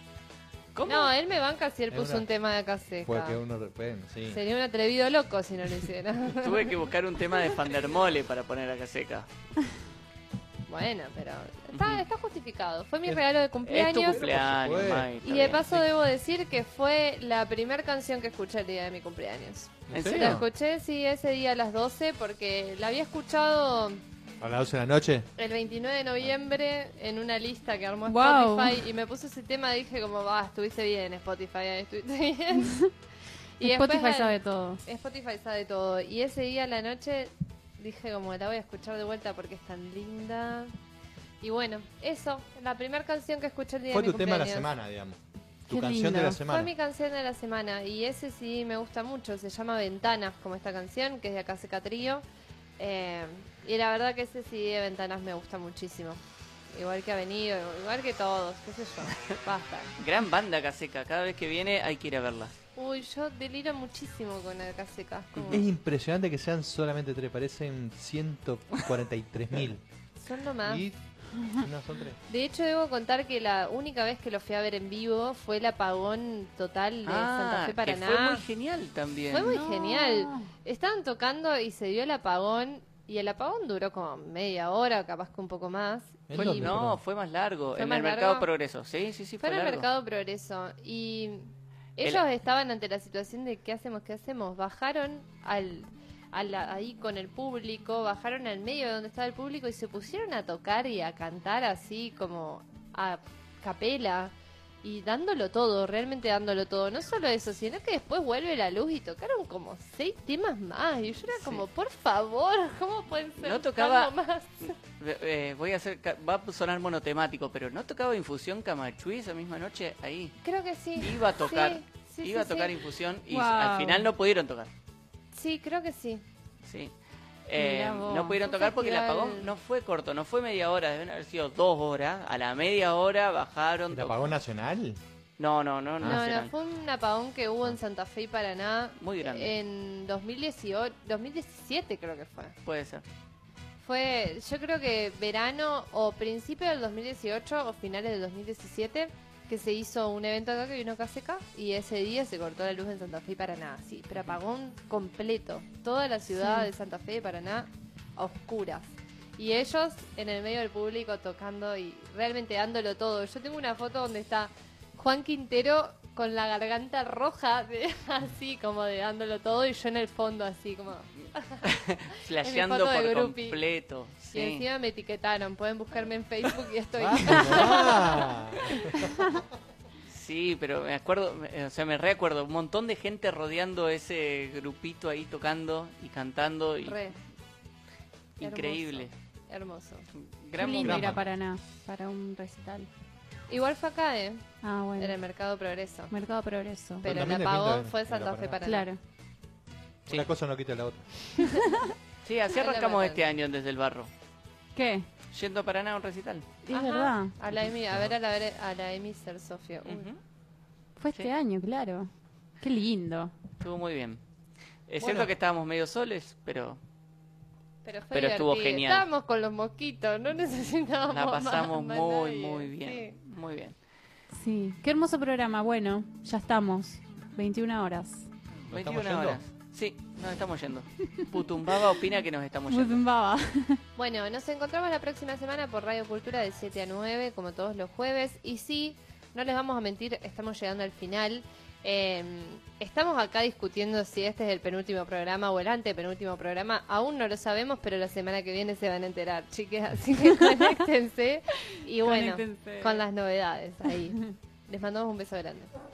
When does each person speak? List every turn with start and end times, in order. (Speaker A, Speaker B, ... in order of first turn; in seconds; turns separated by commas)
Speaker A: 0.8-1.1, Speaker B: 0.9-3.4, Speaker C: 1.9-2.3, Speaker C: 3.0-4.4, Speaker B: 4.3-6.7, Speaker A: 6.4-9.3, Speaker B: 10.7-14.2, Speaker A: 11.7-12.0, Speaker A: 13.7-15.9, Speaker C: 14.0-15.1, Speaker B: 15.2-24.0, Speaker C: 19.9-20.4, Speaker A: 19.9-20.4, Speaker C: 24.4-25.3, Speaker B: 25.4-32.8, Speaker D: 28.1-28.8, Speaker D: 32.6-32.9, Speaker B: 33.6-40.7, Speaker D: 33.6-34.8, Speaker B: 41.4-44.7, Speaker C: 43.9-46.7, Speaker D: 45.7-46.4, Speaker B: 46.5-52.2, Speaker B: 52.8-56.2, Speaker B: 56.7-59.9, Speaker A: 60.0-62.5, Speaker B: 62.8-65.6, Speaker A: 65.3-65.7, Speaker C: 65.5-69.8, Speaker B: 70.2-70.8, Speaker C: 70.6-72.2, Speaker B: 72.3-78.4, Speaker A: 77.0-79.6, Speaker B: 79.3-86.2, Speaker D: 79.5-80.5, Speaker C: 86.3-87.0, Speaker A: 86.3-89.9, Speaker B: 87.8-88.5, Speaker B: 89.4-114.7, Speaker A: 111.3-111.7, Speaker A: 113.4-120.4, Speaker B: 120.4-122.8, Speaker A: 121.0-124.7, Speaker D: 123.3-124.1, Speaker B: 125.3-126.2, Speaker A: 126.6-126.9, Speaker A: 127.5-134.2, Speaker D: 127.6-128.4, Speaker B: 128.2-129.5, Speaker C: 133.9-135.0, Speaker A: 135.4-136.5, Speaker C: 136.0-136.3, Speaker B: 136.0-142.6, Speaker A: 139.0-139.5, Speaker A: 142.7-143.0, Speaker B: 143.8-171.7, Speaker D: 156.4-156.7, Speaker A: 171.6-174.6, Speaker B: 172.4-173.6, Speaker B: 174.3-178.0, Speaker C: 177.0-179.1, Speaker A: 180.1-187.0, Speaker B: 186.9-187.2, Speaker A: 188.4-189.1, Speaker B: 188.4-190.1, Speaker A: 190.4-191.2, Speaker D: 190.6-192.9, Speaker C: 190.7-191.3, Speaker B: 193.5-196.1, Speaker D: 194.6-195.2, Speaker D: 196.1-197.1, Speaker B: 197.0-198.9, Speaker C: 197.0-198.6, Speaker D: 198.6-199.0, Speaker C: 200.1-201.3, Speaker A: 202.2-204.1, Speaker B: 202.6-203.2, Speaker D: 204.8-205.1, Speaker A: 205.3-206.5, Speaker D: 206.7-207.3, Speaker B: 206.7-210.1, Speaker A: 209.8-210.2, Speaker D: 211.0-213.3, Speaker A: 213.6-214.2, Speaker A: 214.9-216.8, Speaker C: 215.0-215.3, Speaker B: 217.8-223.1, Speaker A: 218.1-219.1, Speaker A: 221.1-223.8, Speaker D: 224.3-228.3, Speaker C: 228.7-229.4, Speaker A: 228.7-233.0, Speaker D: 232.7-233.8, Speaker B: 234.0-255.7, Speaker D: 252.0-253.0